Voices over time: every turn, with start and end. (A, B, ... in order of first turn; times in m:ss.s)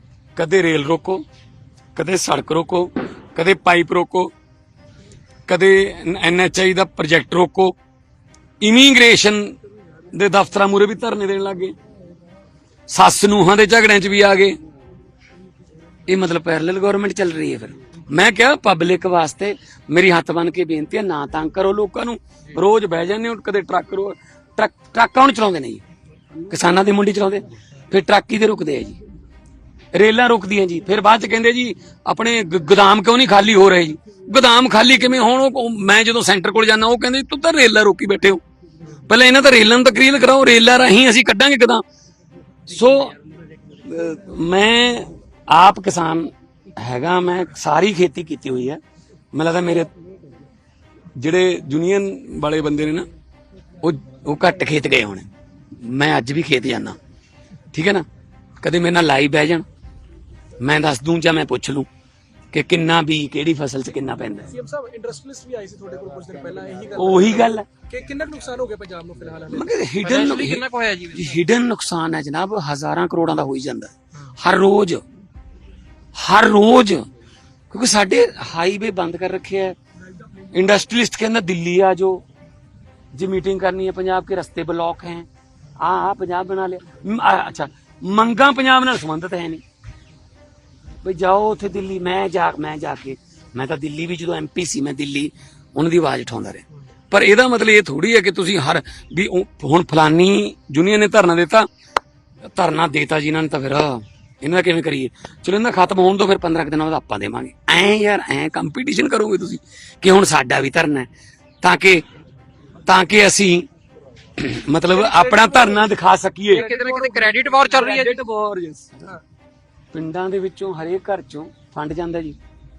0:00.4-0:01.2 A
0:02.0-0:04.3 A
0:05.5-0:07.8 A
0:08.6-0:09.6 A
0:10.1-0:11.8 A
0:12.9-0:14.6 A
0:16.1-0:25.8 A
0:26.5-0:29.0 A
0:29.9-0:38.4 A
0:39.1-0:41.8 A
0:42.7-0:43.2 A
0:43.8-0:48.8 A
0:49.3-0:49.9 A
0:51.2-0:53.1 A
0:53.8-0:55.3 A
0:55.8-0:57.0 A
0:57.7-0:58.1 A
0:58.6-0:59.6 A
1:00.6-1:01.9 A
1:02.5-1:04.5 A
1:04.5-1:09.8 B
1:07.0-1:07.7 A
1:09.5-1:10.6 A
1:10.0-1:11.4 C
1:11.1-1:15.0 A
1:16.2-1:17.1 A
1:17.7-1:19.8 A
1:20.5-1:22.2 A
1:23.1-1:25.3 A
1:25.8-1:29.6 A
1:31.0-1:41.7 A
1:42.5-1:51.1 A
1:51.6-1:52.0 A
1:52.9-1:53.7 A
1:54.4-1:56.7 A
1:54.9-1:55.8 B
1:56.5-1:58.2 C
1:56.6-1:57.1 B
1:57.8-1:59.1 A
1:59.9-2:02.4 A